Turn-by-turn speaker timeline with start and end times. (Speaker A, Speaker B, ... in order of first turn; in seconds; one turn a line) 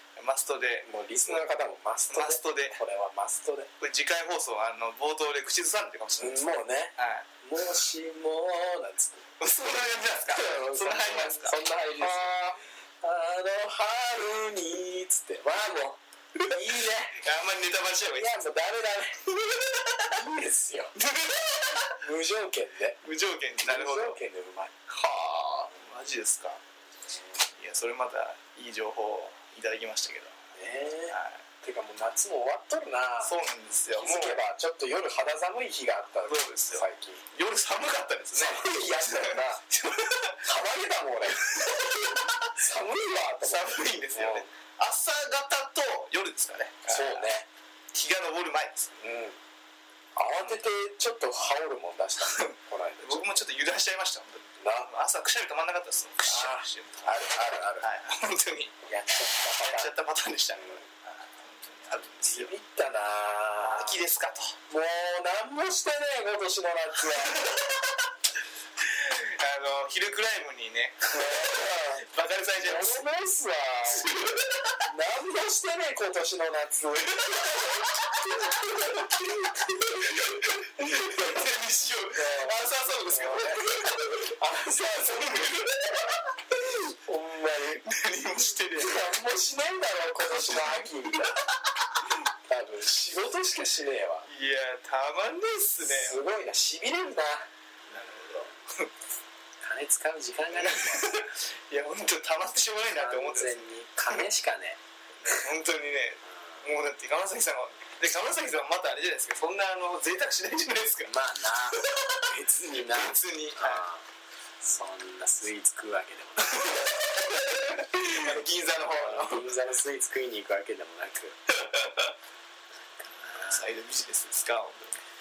Speaker A: 0.2-1.5
Speaker B: 0.8-3.7
Speaker A: 2.1-2.8
Speaker A: 3.8-7.8
Speaker B: 6.2-9.3
Speaker A: 9.4-12.5
Speaker B: 10.3-17.2
Speaker A: 17.1-18.4
Speaker B: 18.1-19.2
Speaker A: 19.3-20.2
Speaker B: 20.1-20.9
Speaker A: 20.9-22.0
Speaker B: 21.9-23.0
Speaker A: 23.0-24.2
Speaker B: 23.6-24.7
Speaker A: 24.9-26.6
Speaker A: 27.5-30.4
Speaker B: 30.5-33.3
Speaker A: 31.1-31.4
Speaker A: 33.2-34.4
Speaker B: 34.0-37.2
Speaker A: 36.2-40.4
Speaker B: 38.3-39.6
Speaker B: 40.4-44.5
Speaker A: 41.3-42.6
Speaker A: 43.4-47.3
Speaker B: 46.9-47.5
Speaker A: 47.9-48.9
Speaker B: 49.0-49.4
Speaker B: 50.1-53.4
Speaker A: 52.2-58.7
Speaker B: 54.6-54.9
Speaker B: 56.2-57.9
Speaker B: 58.8-59.9
Speaker A: 59.5-62.5
Speaker B: 60.5-60.8
Speaker B: 62.2-64.0
Speaker A: 63.6-64.6
Speaker B: 64.7-67.5
Speaker A: 67.1-68.0
Speaker A: 68.8-73.0
Speaker B: 71.1-72.0
Speaker B: 72.6-74.1
Speaker A: 73.8-74.9
Speaker B: 74.8-79.5
Speaker A: 77.1-84.3
Speaker B: 80.0-80.2
Speaker B: 80.8-81.4
Speaker B: 82.1-85.7
Speaker A: 85.0-86.8
Speaker B: 86.6-87.8
Speaker A: 87.8-89.1
Speaker B: 88.8-91.3
Speaker A: 90.2-92.1
Speaker B: 92.5-94.3
Speaker A: 94.3-96.2
Speaker B: 95.8-97.5
Speaker A: 97.9-98.9
Speaker B: 99.6-101.2
Speaker A: 100.5-104.2
Speaker B: 102.9-105.4
Speaker A: 105.2-113.8
Speaker B: 111.0-114.0
Speaker B: 114.6-117.0
Speaker A: 116.4-119.5
Speaker B: 118.9-121.4
Speaker A: 121.6-122.1
Speaker A: 123.2-125.0
Speaker B: 123.3-123.6